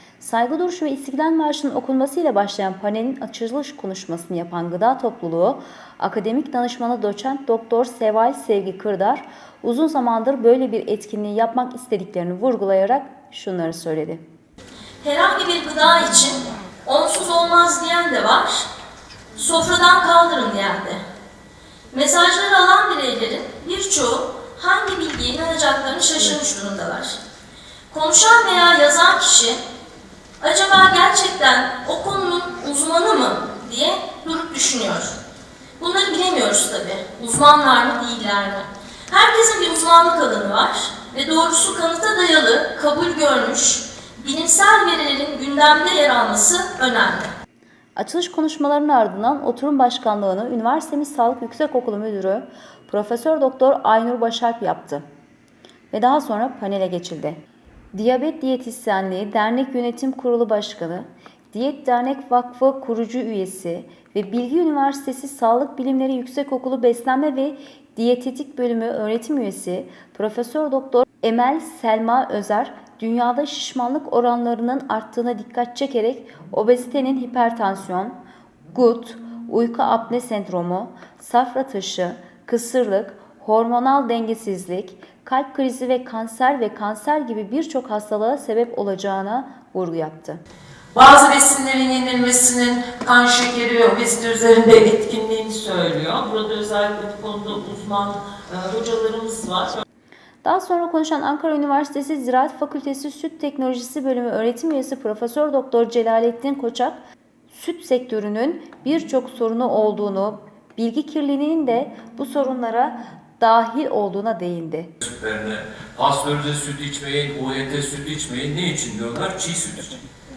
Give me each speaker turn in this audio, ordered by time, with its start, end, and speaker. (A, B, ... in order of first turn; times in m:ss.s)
0:00.2-0:14.2 A
0:15.0-0:18.7 B
0:19.4-0:21.0 B
0:21.9-0:27.2 B
0:27.9-0:29.6 B
0:30.4-0:35.2 B
0:35.8-0:47.3 B
0:48.0-0:55.0 A
0:55.9-0:57.4 A
0:57.9-1:18.2 A
1:18.7-1:30.4 A
1:30.9-1:39.8 C
1:40.4-1:47.0 A
1:47.5-1:54.9 A
1:55.0-2:00.0 D